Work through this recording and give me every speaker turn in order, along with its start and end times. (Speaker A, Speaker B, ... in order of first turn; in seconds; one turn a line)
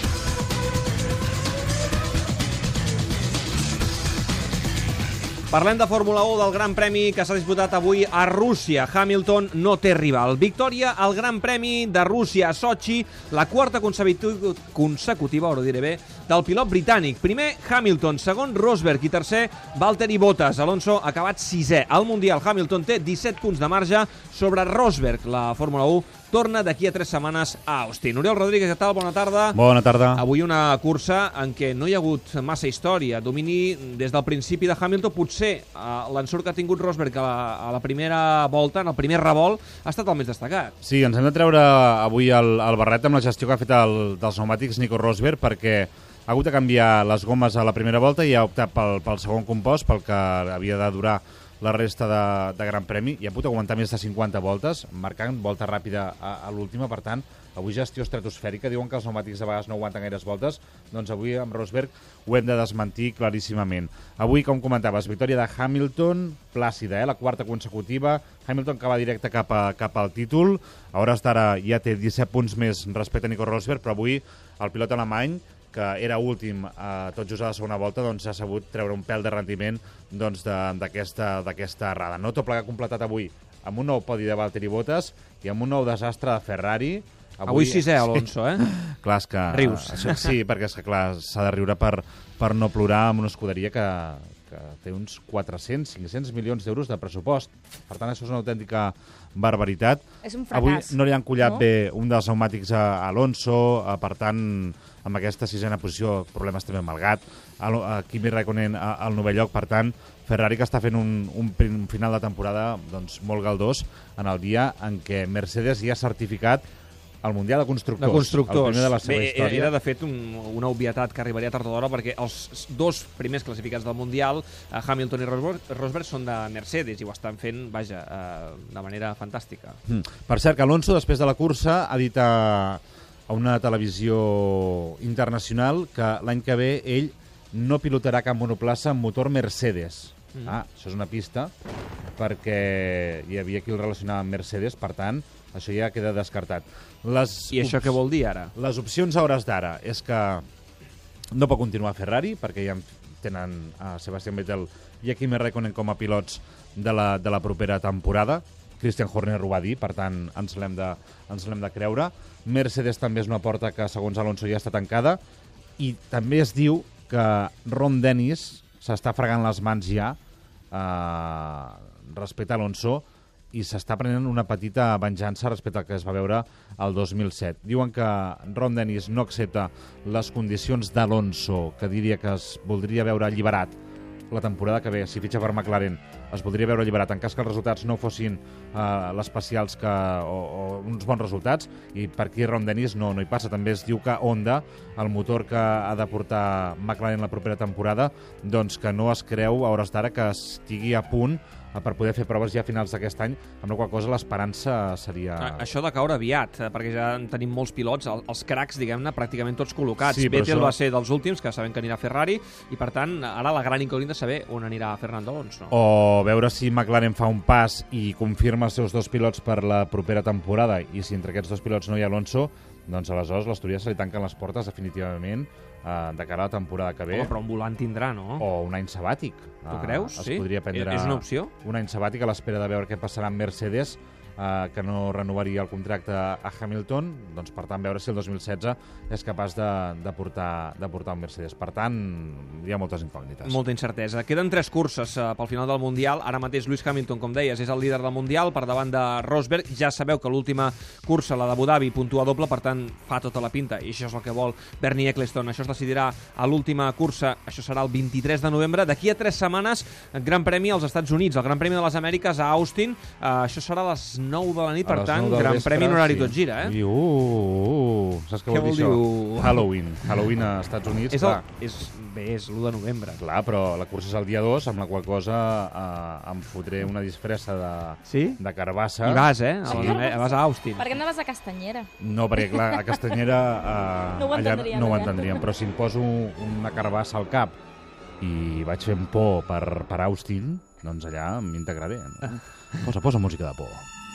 Speaker A: 5.5-29.6
Speaker B: 29.5-30.2
Speaker A: 30.1-40.7
Speaker B: 40.8-116.6
Speaker A: 87.5-88.7
Speaker A: 89.5-90.4
Speaker C: 100.2-101.6
Speaker B: 117.2-119.7
Speaker A: 118.0-129.8
Speaker B: 129.9-141.5
Speaker B: 142.2-148.0
Speaker A: 147.5-148.5
Speaker B: 148.6-150.4
Speaker B: 151.3-165.2
Speaker B: 165.8-170.2
Speaker B: 170.7-183.8
Speaker B: 184.3-205.6
Speaker A: 205.4-215.8
Speaker B: 210.0-210.8
Speaker B: 215.7-227.3
Speaker A: 227.1-228.4
Speaker B: 228.4-243.6
Speaker A: 229.7-231.5
Speaker A: 243.4-266.8
Speaker B: 264.8-271.4
Speaker A: 268.5-269.6
Speaker A: 271.1-273.2
Speaker B: 273.2-280.1
Speaker A: 278.1-278.4
Speaker A: 279.0-281.0
Speaker C: 279.7-281.9
Speaker B: 282.0-287.6
Speaker C: 282.4-283.2
Speaker C: 284.2-285.5
Speaker B: 288.2-293.9